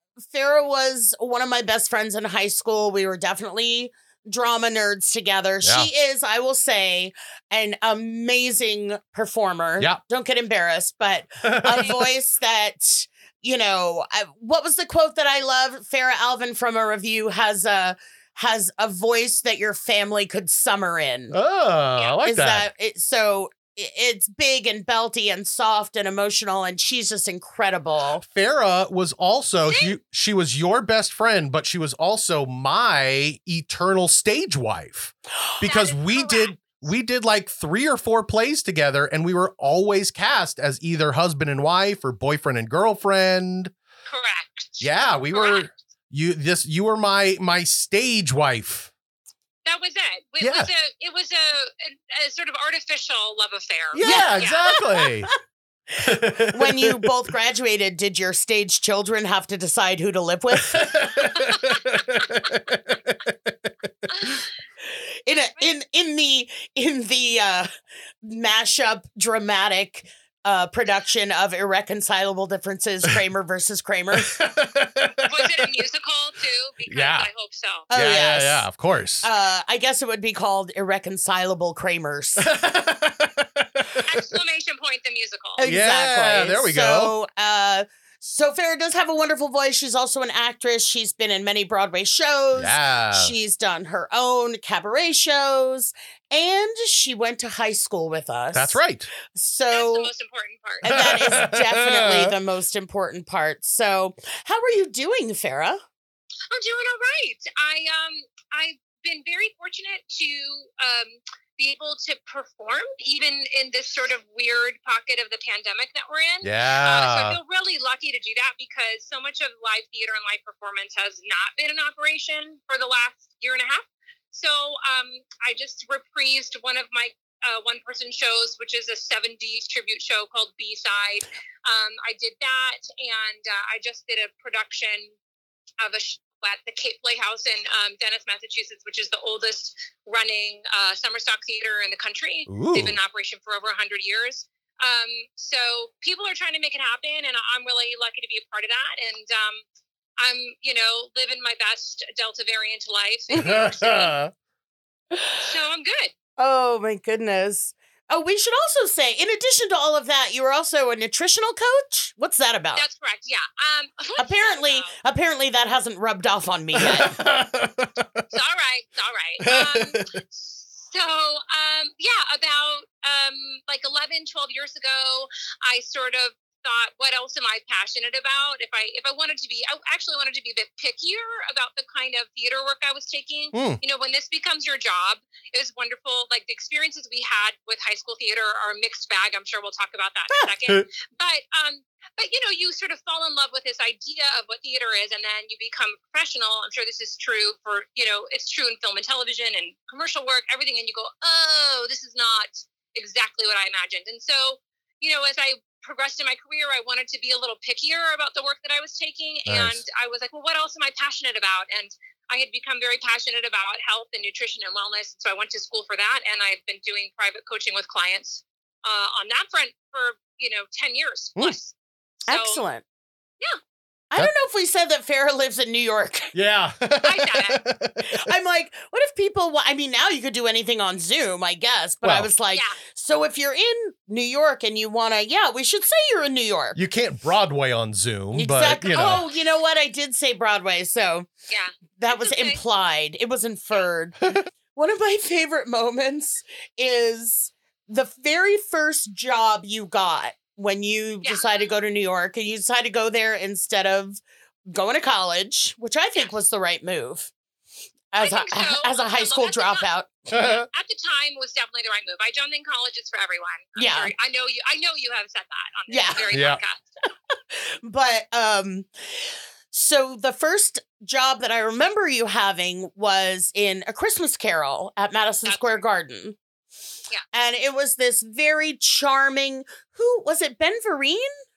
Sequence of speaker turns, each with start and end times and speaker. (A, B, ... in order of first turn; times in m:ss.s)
0:00.2-0:21.4 A
0:05.6-0:05.9 B
0:11.4-0:12.1 B
0:21.3-0:22.7 B
0:22.2-0:28.2 A
0:28.2-0:43.7 B
0:29.7-0:30.0 C
0:35.6-0:36.7 C
0:44.1-0:45.7 C
0:44.8-0:48.9 B
0:49.6-0:54.8 C
0:50.4-0:50.7 B
0:53.9-0:55.3 B
0:54.0-0:55.0 A
0:56.0-0:57.1 B
0:56.5-1:00.9 A
1:00.5-1:04.4 B
1:04.2-1:04.4 C
1:04.9-1:07.7 A
1:08.2-1:14.3 A
1:14.2-1:15.7 B
1:15.2-1:17.9 C
1:16.9-1:17.3 B
1:17.9-1:18.7 A
1:17.9-1:19.3 B
1:19.2-1:22.5 A
1:22.4-1:24.4 B
1:24.1-1:25.6 C
1:25.6-1:38.8 A
1:25.6-1:27.1 B
1:32.5-1:33.3 B
1:38.5-1:39.1 B
1:39.3-1:40.1 A
1:39.7-1:41.0 C
1:40.8-1:45.8 A
1:40.9-1:42.3 B
1:46.5-2:15.1 C
1:56.4-1:57.4 B
2:15.8-2:29.6 C
2:22.5-2:23.0 B
2:30.2-2:34.1 C
2:33.3-2:34.3 B
2:35.2-2:35.4 A
2:35.4-2:36.1 C
2:36.4-2:42.8 A
2:42.7-2:44.9 C
2:44.2-2:47.1 A
2:46.8-2:48.2 B
2:48.3-3:41.7 C
2:49.4-2:50.2 B
3:03.5-3:03.8 B
3:10.4-3:10.8 B
3:29.4-3:29.8 B
3:42.3-3:42.8 A
3:42.3-3:42.6 C
3:44.1-3:46.3 A
3:46.3-3:48.2 B
3:47.0-3:47.6 C
3:48.0-3:56.8 A
3:52.0-3:52.3 B
3:52.5-3:52.8 C
3:56.7-3:59.2 B
3:58.3-4:01.3 A
3:59.0-3:59.2 C
4:01.5-4:02.6 C
4:02.0-4:04.2 A
4:04.7-4:17.3 A
4:11.2-4:11.7 C
4:18.1-4:20.1 A
4:18.2-4:26.8 C
4:20.3-4:20.6 B
4:23.8-4:24.1 A
4:25.9-4:26.3 A
4:26.3-4:26.6 B
4:27.8-4:28.9 A
4:29.7-4:36.4 A
4:35.4-4:35.8 C
4:37.3-4:41.3 A